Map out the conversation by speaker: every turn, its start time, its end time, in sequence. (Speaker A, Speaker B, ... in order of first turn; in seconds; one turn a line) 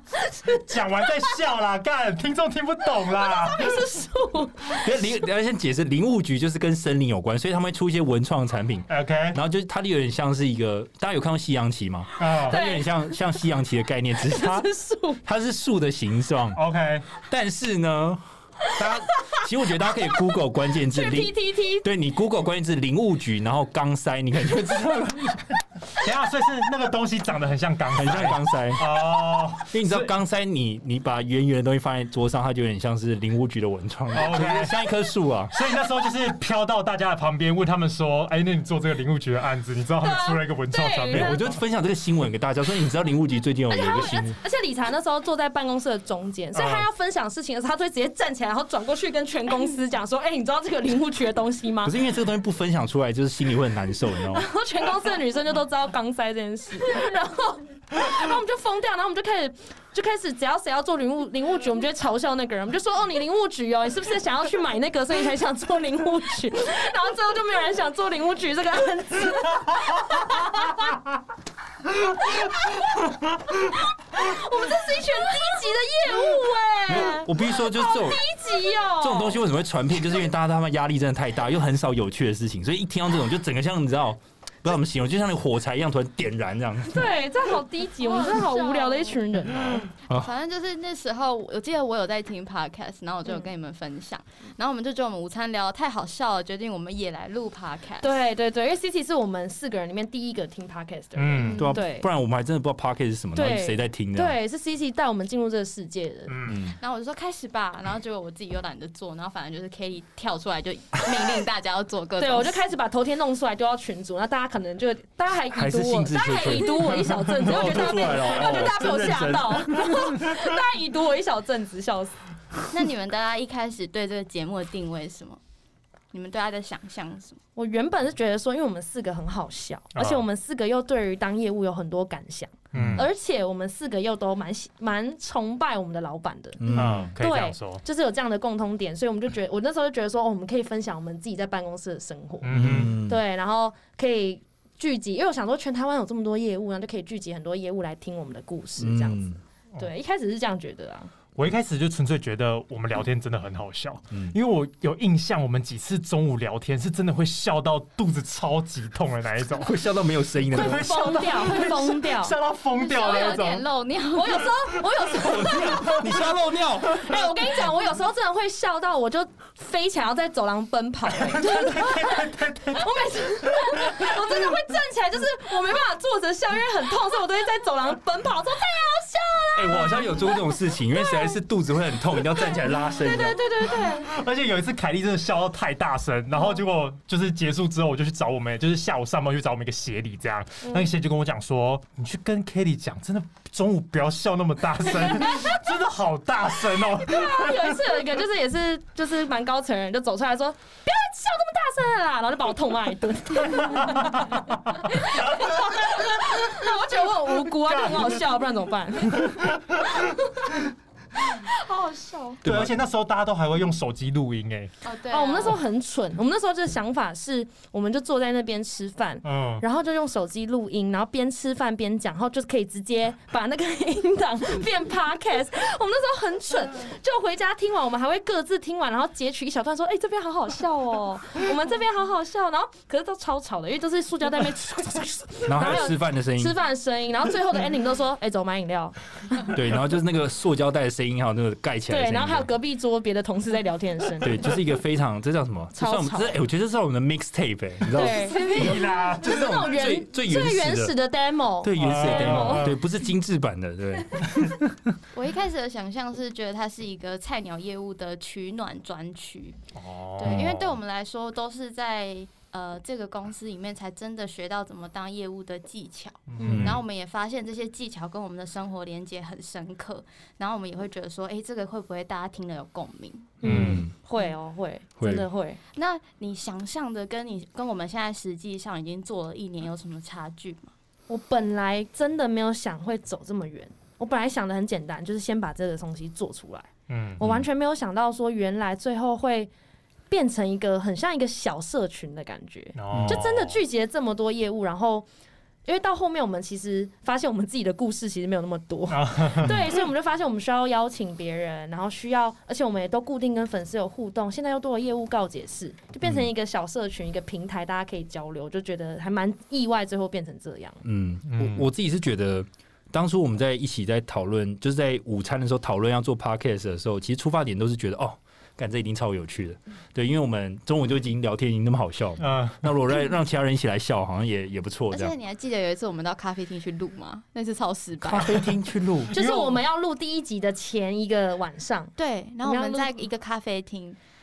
Speaker A: 0.3-0.6
Speaker B: 0.5-3.8
Speaker A: 3.1-4.9
Speaker C: 4.7-14.7
Speaker B: 8.9-9.4
Speaker B: 12.2-12.6
Speaker A: 12.4-13.2
Speaker A: 14.2-15.2
Speaker C: 15.2-16.6
Speaker B: 16.6-17.1
Speaker C: 17.2-25.6
Speaker A: 18.7-21.9
Speaker B: 26.0-30.1
Speaker C: 27.9-35.5
Speaker B: 34.1-34.8
Speaker B: 35.5-41.6
Speaker A: 40.0-41.4
Speaker C: 41.1-44.4
Speaker A: 43.7-52.0
Speaker B: 46.5-46.9
Speaker C: 51.8-54.5
Speaker A: 54.3-71.0
Speaker A: 72.0-79.4
Speaker C: 76.9-78.2
Speaker C: 79.0-87.2
Speaker A: 86.9-89.9
Speaker D: 88.0-89.2
Speaker D: 90.1-98.2
Speaker A: 98.0-102.1
Speaker B: 101.2-101.7
Speaker D: 101.4-101.8
Speaker C: 101.6-104.4
Speaker A: 103.3-106.4
Speaker B: 106.3-106.6
Speaker C: 106.5-106.8
Speaker D: 106.8-112.6
Speaker A: 112.2-122.2
Speaker C: 115.5-119.8
Speaker B: 117.5-120.1
Speaker D: 122.7-125.4
Speaker D: 126.1-127.4
Speaker A: 127.5-151.1
Speaker B: 129.9-130.2
Speaker C: 132.7-133.0
Speaker B: 132.7-133.0
Speaker C: 136.6-137.1
Speaker B: 136.7-137.8
Speaker B: 142.4-143.0
Speaker C: 142.5-143.2
Speaker C: 148.8-149.4
Speaker B: 151.4-159.8
Speaker C: 154.1-154.4
Speaker C: 159.6-161.2
Speaker B: 160.5-163.7
Speaker A: 160.5-162.4
Speaker D: 162.7-164.6
Speaker A: 164.1-166.2
Speaker C: 165.1-167.3
Speaker A: 166.8-181.4
Speaker B: 171.2-173.1
Speaker B: 173.8-174.4
Speaker C: 179.6-183.4
Speaker A: 182.3-184.1
Speaker B: 183.7-198.0
Speaker A: 195.1-195.6
Speaker A: 197.0-210.6
Speaker B: 203.6-204.1
Speaker B: 205.2-205.7
Speaker B: 207.6-208.2
Speaker A: 211.2-212.4
Speaker C: 212.4-212.8
Speaker B: 212.4-214.7
Speaker D: 214.8-215.6
Speaker A: 215.1-239.5
Speaker B: 219.2-219.6
Speaker C: 235.5-236.6
Speaker C: 239.5-242.5
Speaker A: 241.9-244.5
Speaker C: 244.2-251.0
Speaker A: 245.8-246.4
Speaker A: 247.9-252.8
Speaker B: 248.0-249.5
Speaker C: 251.6-255.0
Speaker B: 251.8-252.8
Speaker D: 255.1-259.6
Speaker B: 259.8-260.8
Speaker D: 260.2-273.4
Speaker C: 260.2-260.6
Speaker B: 266.3-266.8
Speaker A: 266.4-266.7
Speaker C: 266.4-266.8
Speaker C: 273.4-273.9
Speaker A: 273.4-275.6
Speaker B: 273.4-273.8
Speaker C: 275.0-275.3
Speaker D: 275.7-280.7
Speaker A: 281.1-286.7
Speaker B: 286.9-287.2
Speaker C: 287.2-287.5
Speaker A: 287.2-289.5
Speaker A: 290.1-295.1
Speaker B: 292.8-293.6
Speaker C: 292.9-293.3
Speaker A: 295.6-310.8
Speaker B: 298.9-299.7
Speaker C: 306.0-306.3
Speaker C: 310.8-325.1
Speaker B: 311.3-311.7
Speaker B: 322.2-322.7
Speaker D: 324.9-328.5
Speaker C: 328.0-329.2
Speaker A: 329.1-332.9
Speaker B: 329.1-329.6
Speaker D: 332.0-334.0